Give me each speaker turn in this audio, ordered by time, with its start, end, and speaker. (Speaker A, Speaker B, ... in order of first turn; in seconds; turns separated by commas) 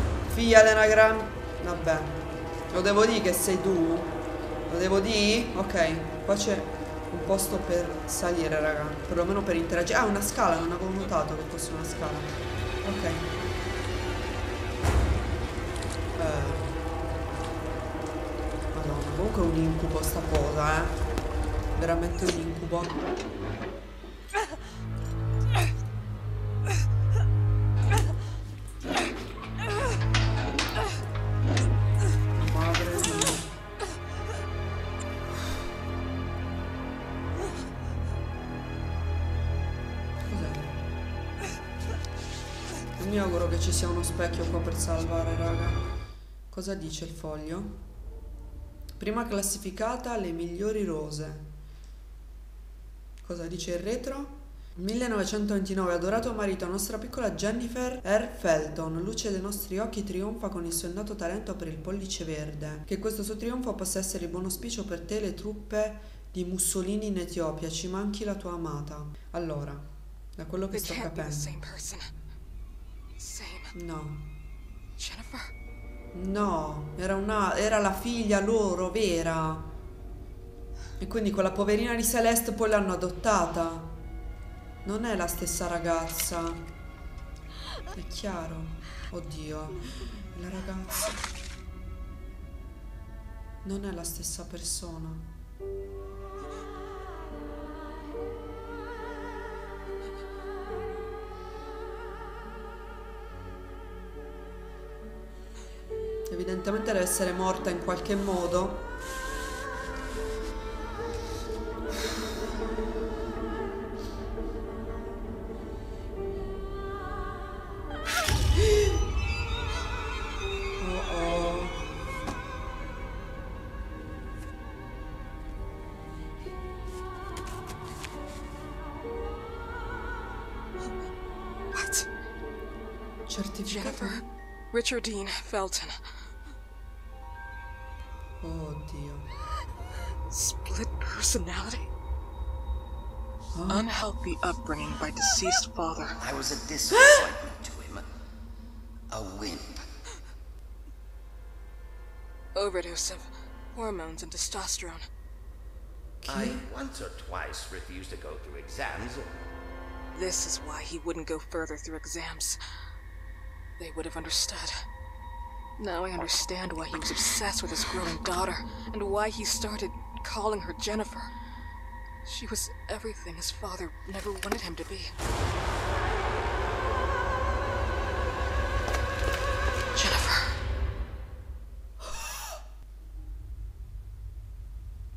Speaker A: 0.3-13.3, Speaker A: 16.1-16.8, Speaker A: 18.7-21.0, Speaker A: 21.8-23.0, Speaker A: 32.4-33.5, Speaker A: 40.2-40.8, Speaker A: 43.0-45.8, Speaker A: 46.5-47.8, Speaker A: 49.0-51.5, Speaker A: 53.2-69.9, Speaker A: 70.4-71.6, Speaker B: 70.7-72.1, Speaker B: 73.2-73.7, Speaker A: 73.7-74.3, Speaker B: 75.0-75.5, Speaker A: 76.1-79.7, Speaker A: 81.0-84.0, Speaker A: 84.8-86.6, Speaker A: 87.9-91.3, Speaker A: 93.6-95.3, Speaker A: 106.3-108.9, Speaker A: 120.8-121.8, Speaker B: 131.7-132.1, Speaker A: 133.3-134.3, Speaker B: 133.7-136.0, Speaker A: 138.4-139.3, Speaker B: 140.3-141.9, Speaker A: 143.5-143.9, Speaker B: 143.7-146.2, Speaker C: 146.2-148.1, Speaker C: 149.1-149.8, Speaker B: 152.6-155.1, Speaker A: 156.2-156.6, Speaker C: 156.3-159.4, Speaker B: 160.1-162.6, Speaker B: 163.8-164.7, Speaker B: 165.8-171.3, Speaker B: 172.2-175.1, Speaker B: 179.9-180.6, Speaker A: 182.0-182.3